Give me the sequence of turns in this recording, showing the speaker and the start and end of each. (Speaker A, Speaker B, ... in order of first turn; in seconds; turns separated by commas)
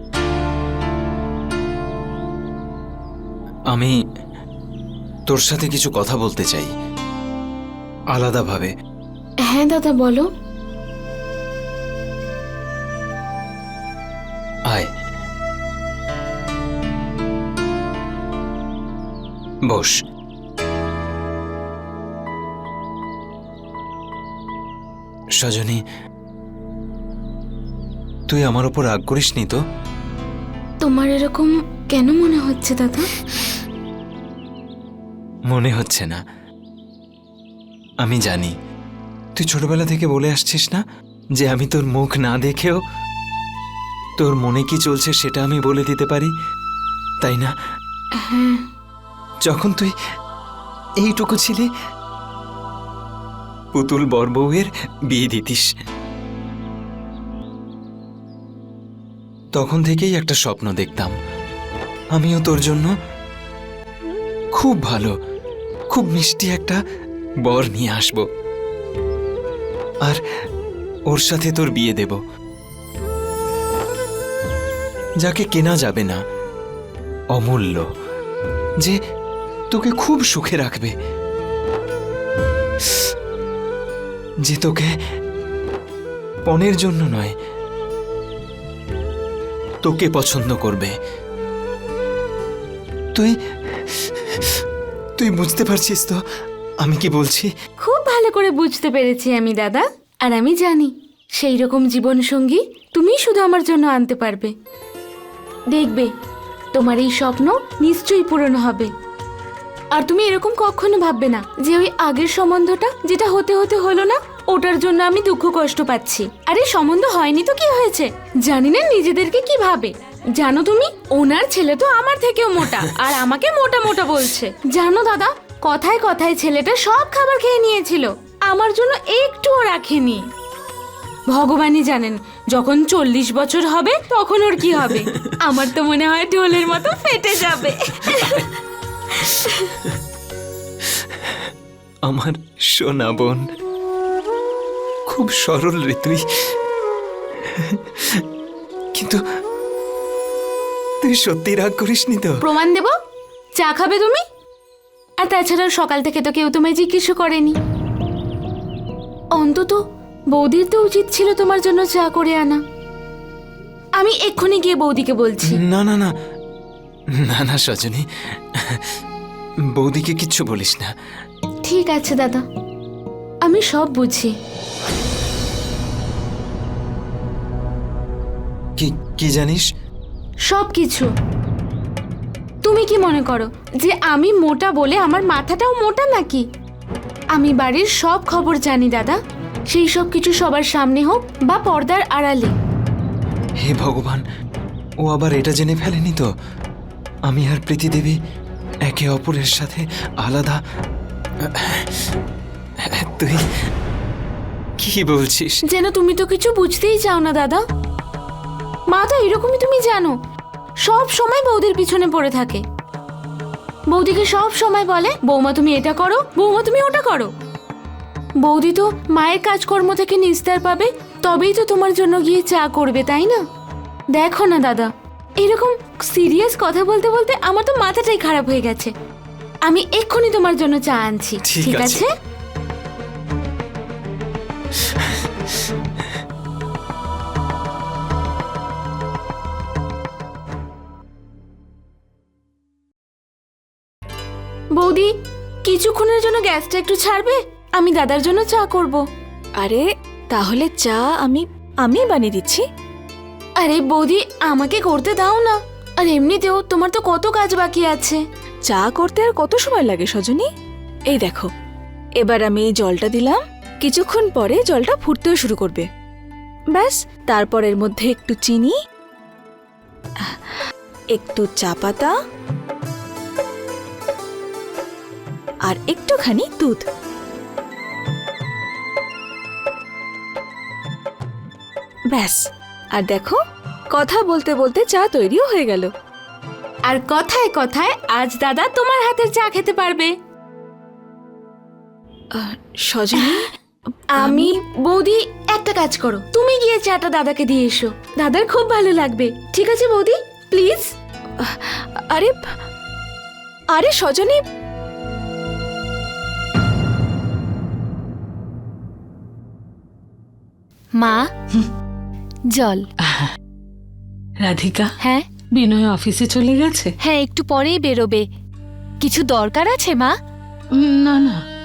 Speaker A: 5.3-6.7, Speaker A: 8.1-8.7, Speaker B: 9.4-10.2, Speaker A: 19.7-19.9, Speaker A: 25.4-25.8, Speaker A: 28.3-29.6, Speaker B: 30.8-33.0, Speaker A: 35.5-36.2, Speaker A: 38.0-38.5, Speaker A: 39.4-40.8, Speaker A: 41.4-42.8, Speaker A: 44.2-46.3, Speaker A: 47.2-47.5, Speaker B: 48.2-48.6, Speaker A: 49.5-49.9, Speaker A: 51.0-51.7, Speaker A: 53.7-55.7, Speaker A: 59.5-61.1, Speaker A: 62.1-62.9, Speaker A: 64.5-65.1, Speaker A: 65.9-66.8, Speaker A: 67.4-68.2, Speaker A: 71.1-72.2, Speaker A: 75.2-76.2, Speaker A: 77.3-77.8, Speaker A: 79.7-80.9, Speaker A: 84.4-84.9, Speaker A: 86.5-87.3, Speaker A: 89.8-90.9, Speaker A: 93.9-94.4, Speaker A: 95.2-96.2, Speaker A: 96.8-97.5, Speaker B: 97.8-104.5, Speaker B: 105.7-106.1, Speaker B: 106.7-108.9, Speaker B: 109.9-130.2, Speaker B: 131.3-138.5, Speaker A: 141.1-141.5, Speaker A: 142.1-143.4, Speaker A: 145.1-146.2, Speaker A: 147.4-148.2, Speaker A: 148.9-149.2, Speaker A: 151.0-152.4, Speaker B: 152.4-152.9, Speaker B: 153.6-154.2, Speaker B: 155.2-157.6, Speaker B: 159.3-159.8, Speaker B: 160.3-162.6, Speaker B: 164.0-165.6, Speaker A: 165.5-166.1, Speaker A: 167.2-168.0, Speaker A: 168.6-168.8, Speaker A: 169.8-170.9, Speaker B: 171.6-172.4, Speaker B: 173.4-174.3, Speaker A: 178.8-179.6, Speaker B: 180.5-181.1, Speaker B: 182.6-186.4, Speaker B: 187.3-189.2, Speaker B: 189.7-192.5, Speaker A: 193.6-194.2, Speaker A: 195.0-196.3, Speaker A: 197.3-198.1, Speaker A: 198.8-200.6, Speaker A: 201.4-201.9, Speaker A: 202.8-203.4, Speaker A: 204.8-205.6, Speaker B: 205.7-207.6, Speaker B: 208.9-210.1, Speaker B: 210.8-212.6, Speaker B: 213.9-217.3, Speaker B: 218.4-223.4, Speaker B: 224.2-224.9, Speaker B: 225.4-228.9, Speaker B: 229.7-232.1, Speaker A: 231.5-232.0, Speaker B: 244.8-245.1, Speaker B: 245.6-249.0, Speaker C: 249.6-252.6, Speaker B: 253.6-258.2, Speaker C: 258.7-260.5, Speaker C: 261.1-261.5, Speaker C: 262.2-265.9, Speaker C: 266.7-268.7, Speaker C: 271.1-272.1, Speaker C: 275.7-276.8, Speaker C: 282.1-282.4, Speaker C: 282.9-283.4, Speaker C: 283.9-285.9, Speaker B: 286.9-290.1, Speaker C: 292.4-293.5, Speaker C: 294.2-294.6, Speaker B: 294.2-300.9, Speaker C: 301.4-302.4, Speaker C: 303.7-304.4, Speaker D: 311.0-311.3, Speaker D: 312.5-312.9, Speaker E: 314.4-314.9, Speaker E: 315.5-316.9, Speaker D: 317.0-318.2, Speaker D: 319.0-320.1, Speaker E: 320.8-321.4